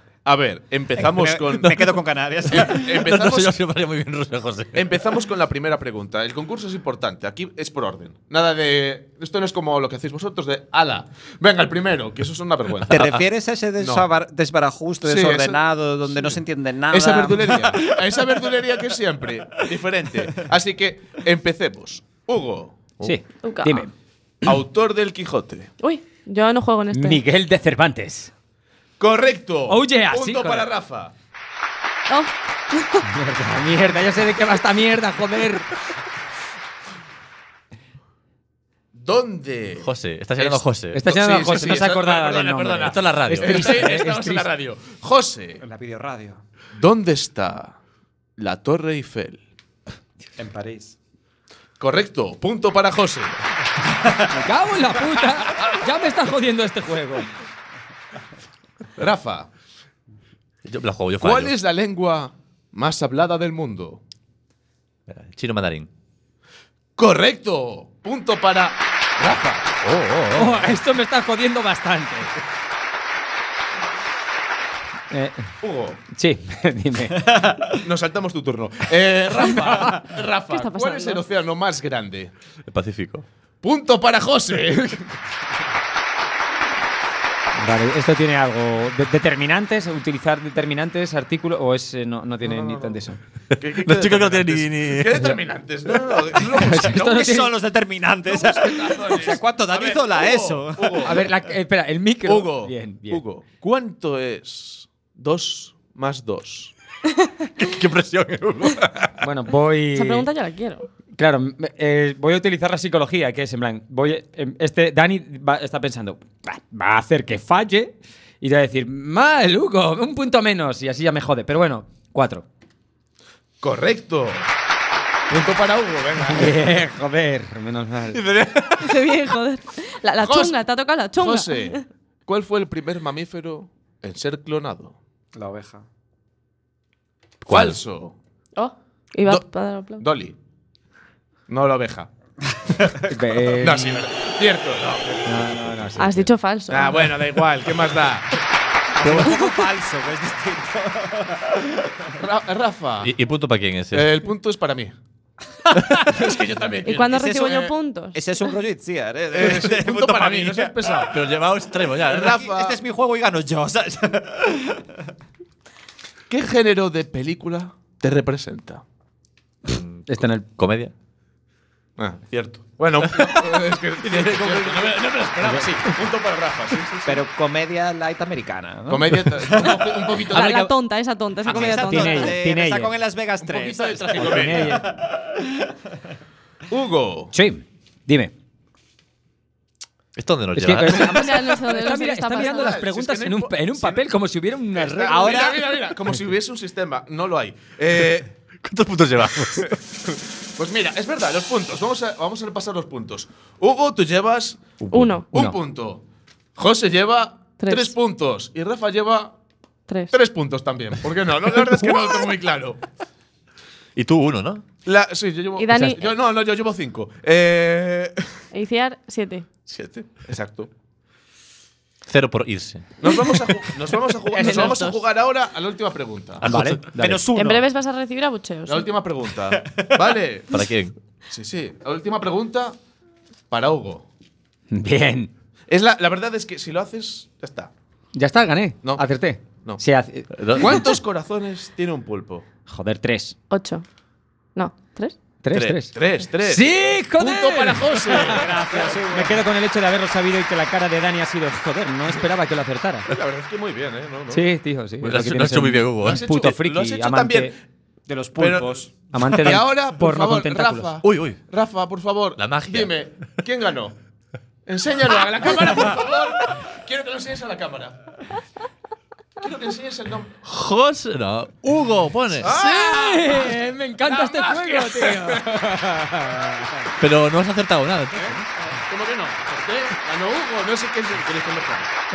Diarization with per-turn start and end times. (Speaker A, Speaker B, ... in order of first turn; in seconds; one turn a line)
Speaker A: 0.2-1.9
Speaker B: 0.9-3.1
Speaker A: 2.5-3.5
Speaker C: 2.9-5.0
Speaker A: 4.8-13.2
Speaker B: 12.9-18.0
Speaker C: 12.9-13.2
Speaker A: 13.8-14.1
Speaker A: 15.0-22.8
Speaker D: 23.0-23.9
Speaker E: 23.4-23.9
Speaker A: 24.4-25.7
Speaker E: 25.8-27.2
Speaker D: 26.9-28.3
Speaker A: 29.0-31.1
Speaker D: 29.7-30.7
Speaker E: 32.1-33.1
Speaker D: 33.1-35.7
Speaker A: 38.9-45.6
Speaker C: 39.8-41.0
Speaker D: 40.9-44.5
Speaker C: 42.8-43.8
Speaker B: 45.6-46.4
Speaker A: 46.7-47.7
Speaker A: 48.4-49.4
Speaker B: 50.4-50.9
Speaker A: 51.8-53.3
Speaker D: 54.3-57.3
Speaker A: 59.0-59.5
Speaker C: 60.6-61.5
Speaker A: 61.2-64.0
Speaker C: 65.1-65.9
Speaker A: 67.0-69.8
Speaker C: 69.8-70.7
Speaker D: 70.3-72.3
Speaker D: 75.1-75.5
Speaker A: 75.6-76.0
Speaker D: 76.1-77.3
Speaker B: 77.3-77.7
Speaker A: 77.8-82.3
Speaker E: 80.5-81.2
Speaker C: 82.7-83.2
Speaker A: 83.6-85.2
Speaker D: 87.6-93.2
Speaker A: 92.4-93.0
Speaker A: 93.6-97.3
Speaker C: 93.8-95.4
Speaker D: 96.6-97.5
Speaker B: 97.0-101.2
Speaker A: 98.3-101.3
Speaker D: 101.0-103.2
Speaker A: 102.2-106.7
Speaker C: 107.6-109.1
Speaker D: 109.2-110.3
Speaker E: 109.9-110.9
Speaker D: 111.2-122.4
Speaker A: 123.6-124.5
Speaker A: 125.3-126.6
Speaker D: 126.3-128.2
Speaker A: 128.1-129.1
Speaker E: 128.8-131.8
Speaker A: 130.2-130.6
Speaker A: 131.1-134.9
Speaker B: 135.3-135.8
Speaker C: 137.4-137.8
Speaker A: 137.5-138.1
Speaker E: 138.6-140.0
Speaker A: 140.0-140.3
Speaker A: 141.5-142.1
Speaker D: 143.1-144.0
Speaker A: 143.6-145.7
Speaker D: 145.2-146.3
Speaker E: 146.0-147.2
Speaker A: 146.7-148.4
Speaker A: 149.0-149.3
Speaker B: 149.0-152.1
Speaker C: 149.0-149.3
Speaker E: 149.3-149.6
Speaker A: 152.2-153.1
Speaker C: 153.0-154.2
Speaker A: 153.9-154.9
Speaker A: 155.8-157.7
Speaker E: 156.8-158.3
Speaker B: 156.9-160.9
Speaker A: 159.3-161.2
Speaker C: 161.1-162.4
Speaker A: 162.0-162.8
Speaker B: 162.2-165.1
Speaker A: 166.3-168.8
Speaker C: 169.7-170.9
Speaker D: 170.1-170.4
Speaker A: 172.0-177.2
Speaker C: 173.1-173.4
Speaker C: 174.0-175.1
Speaker B: 177.1-180.7
Speaker A: 178.9-180.7
Speaker E: 180.3-182.3
Speaker B: 181.4-185.5
Speaker D: 181.7-182.9
Speaker A: 183.4-184.9
Speaker D: 184.1-184.9
Speaker A: 186.7-187.3
Speaker D: 187.3-188.3
Speaker C: 190.2-191.5
Speaker D: 190.6-195.4
Speaker E: 190.9-192.8
Speaker A: 192.4-194.0
Speaker A: 194.7-198.3
Speaker B: 195.1-195.8
Speaker C: 198.6-199.8
Speaker A: 199.2-206.0
Speaker E: 204.9-205.3
Speaker A: 206.6-209.3
Speaker E: 207.6-207.9
Speaker E: 209.9-210.1
Speaker A: 210.1-212.8
Speaker C: 213.9-214.6
Speaker A: 214.8-218.2
Speaker E: 215.6-216.1
Speaker E: 218.5-219.5
Speaker A: 219.7-220.7
Speaker C: 222.1-222.9
Speaker A: 223.0-226.6
Speaker D: 224.4-224.8
Speaker E: 224.4-224.9
Speaker C: 224.4-224.7
Speaker D: 226.4-227.2
Speaker B: 226.9-227.6
Speaker E: 227.3-228.9
Speaker A: 228.7-230.5
Speaker B: 229.6-230.2
Speaker C: 230.5-230.9
Speaker A: 231.3-232.8
Speaker A: 233.5-234.0
Speaker D: 234.7-235.3
Speaker A: 235.7-237.7
Speaker D: 238.1-240.3
Speaker C: 240.3-240.8
Speaker A: 240.5-242.4
Speaker D: 242.7-243.3
Speaker E: 243.5-243.8
Speaker E: 244.5-245.1
Speaker D: 245.4-253.1
Speaker A: 245.5-249.3
Speaker B: 248.2-249.4
Speaker A: 253.1-254.4
Speaker D: 254.3-257.5
Speaker C: 255.0-256.2
Speaker A: 256.0-257.5
Speaker B: 258.1-258.9
Speaker A: 258.4-263.9
Speaker D: 259.1-260.9
Speaker C: 261.0-261.4
Speaker C: 262.4-262.9
Speaker A: 264.6-268.0
Speaker A: 269.4-270.3
Speaker C: 270.4-272.5
Speaker A: 272.4-275.8
Speaker D: 272.4-276.8
Speaker C: 277.0-278.4
Speaker A: 278.1-281.9